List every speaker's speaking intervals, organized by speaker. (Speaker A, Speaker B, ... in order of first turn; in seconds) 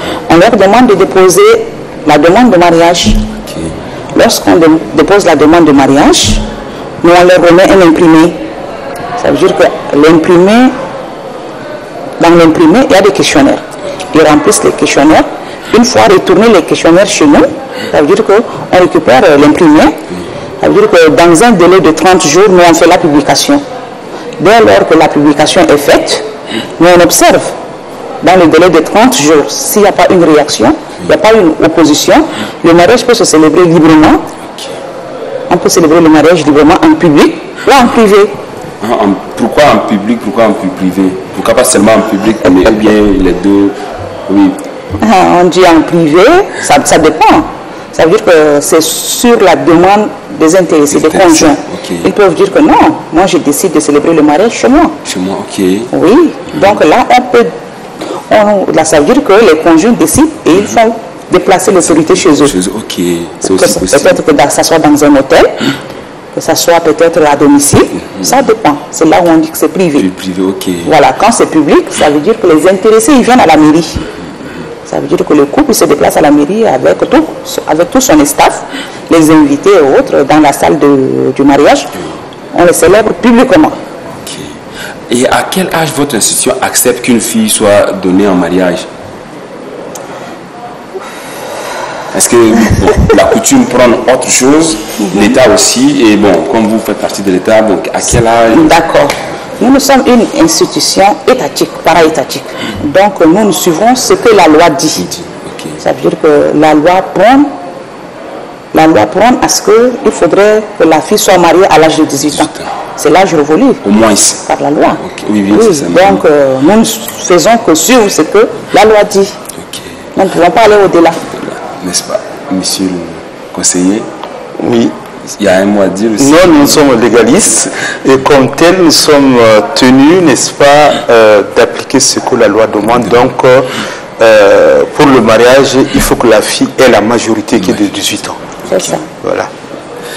Speaker A: 0.2-3.3, 4.1-6.5, 7.0-8.4, 9.2-10.8, 12.2-20.0, 20.6-23.6, 24.4-26.3, 26.8-27.6, 28.2-34.3, 35.5-38.3, 45.0-55.0, 55.9-57.5, 58.1-62.5, 63.4-65.7, 66.3-70.1, 70.8-74.0, 74.8-81.9, 82.5-83.8, 98.5-105.1, 105.8-107.5, 108.7-113.8, 114.4-119.4, 120.2-121.2, 138.7-139.1
Speaker B: 3.4-3.8, 34.4-34.8, 38.8-44.6, 50.9-52.1, 55.0-55.9, 56.5-56.8, 61.8-64.2, 70.0-71.0, 84.2-84.6, 85.1-88.9, 92.1-98.8, 105.0-105.8, 112.2-112.7, 113.8-114.4, 115.0-116.2, 119.5-120.0, 121.2-124.1, 125.3-126.9, 137.6-138.0, 138.6-139.0
Speaker C: 124.6-125.0, 126.2-138.4, 139.1-139.5